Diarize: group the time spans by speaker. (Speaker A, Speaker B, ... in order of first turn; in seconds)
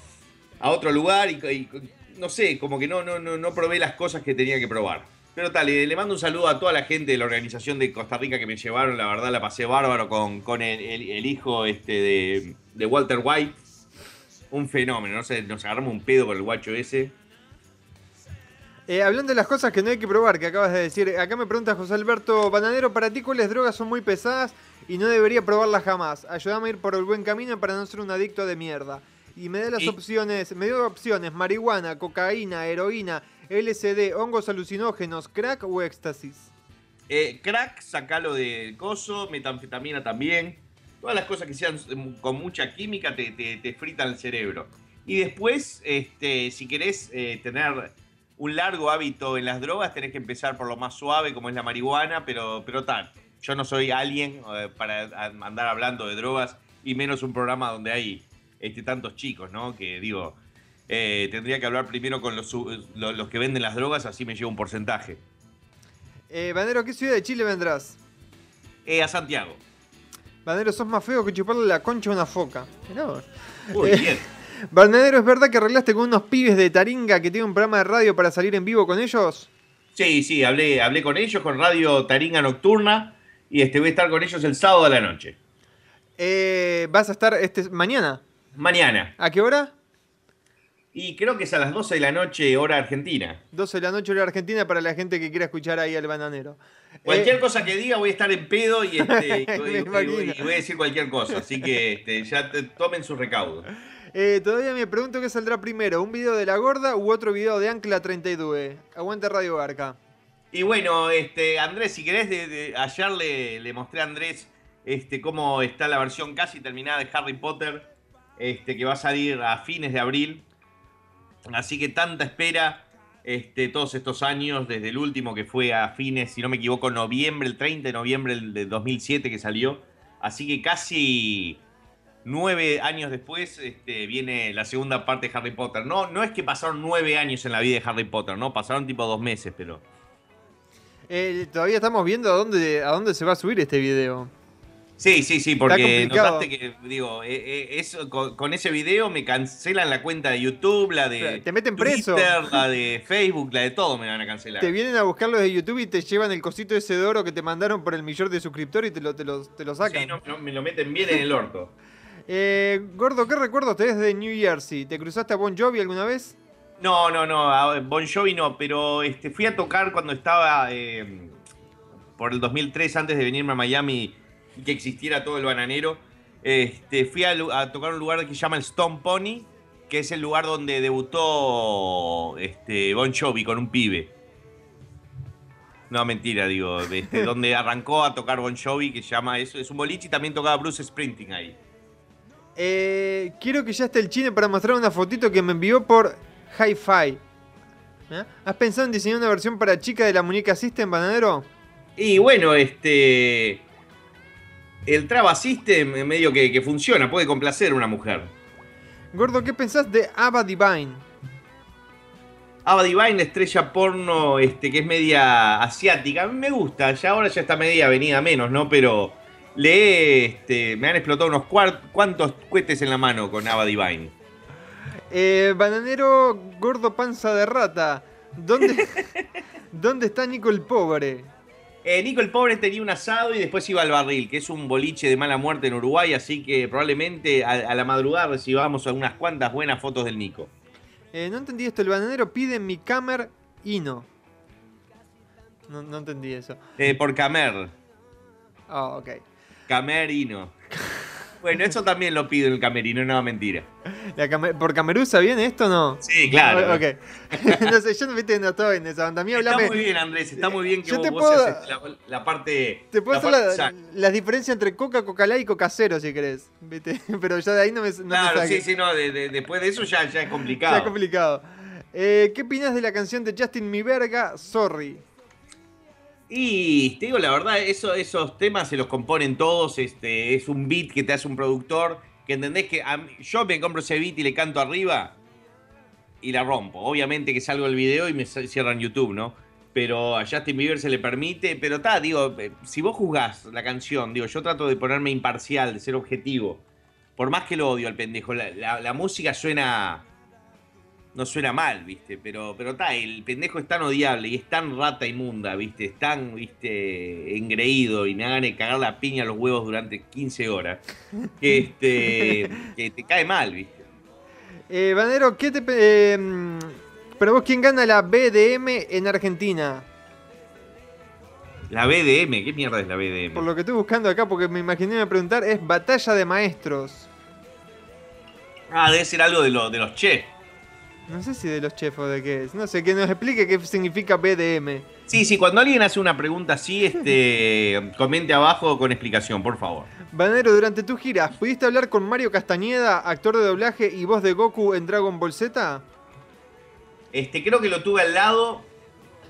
Speaker A: 0.6-13.6, 14.5-17.1, 37.1-60.4, 60.9-65.2, 68.9-69.6, 73.7-74.3, 80.0-85.4, 88.6-89.1, 90.9-93.4, 97.0-103.7, 110.5-120.5, 121.5-131.6, 132.2-139.8, 145.0-154.7, 159.8-161.7, 166.8-171.4, 172.2-184.1, 185.9-191.6, 202.0-203.6, 204.9-208.3, 212.7-224.1, 231.8-240.5, 246.8-247.7, 249.7-250.5, 251.4-253.7, 256.0-257.7, 259.3-263.7, 268.1-270.9, 276.3-285.2, 286.2-296.6, 297.2-300.1, 301.1-310.8, 311.4-313.8, 321.7-323.5, 328.7-330.3, 335.1-339.9, 347.1-348.7
Speaker B: 18.9-36.5, 66.3-68.0, 70.5-74.1, 74.7-79.5, 86.2-88.2, 89.2-89.7, 93.5-97.3, 99.0-100.5, 104.1-110.0, 141.1-144.3, 145.7-146.5, 151.2-152.4, 154.6-160.1, 162.3-166.4, 192.6-197.2, 198.1-201.5, 209.1-211.1, 225.1-229.0, 229.7-231.3, 241.1-244.1, 245.7-246.6, 248.7-249.2, 254.1-259.8, 260.4-261.7, 262.9-268.6, 270.6-275.0, 314.7-319.9, 323.4-327.1, 331.1-334.9, 340.1-345.8